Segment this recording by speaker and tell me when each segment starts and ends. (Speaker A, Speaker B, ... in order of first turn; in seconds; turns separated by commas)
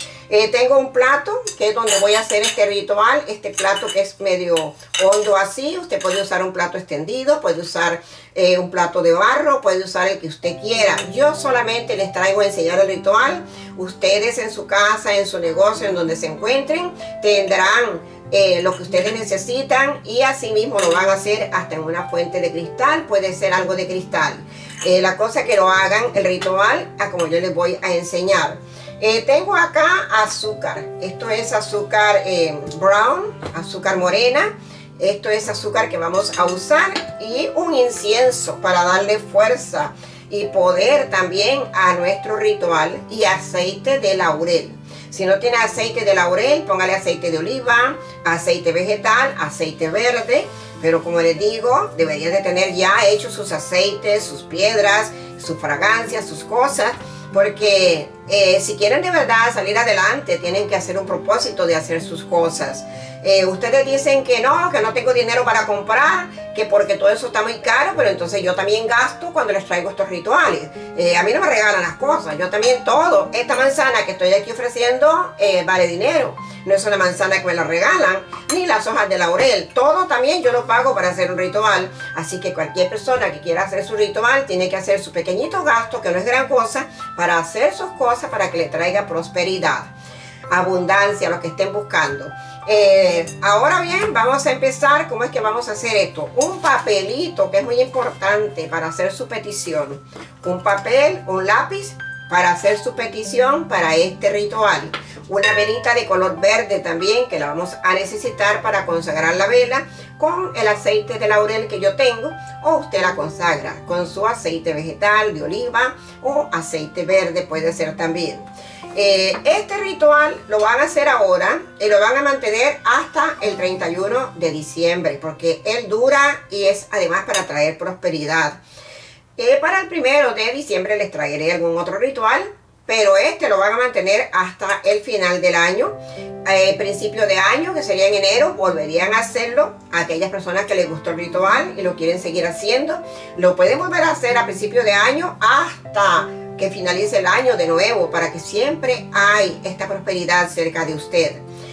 Speaker A: 0.3-89.9, Speaker A: 90.5-128.6, Speaker A: 129.4-135.9, Speaker A: 136.5-151.4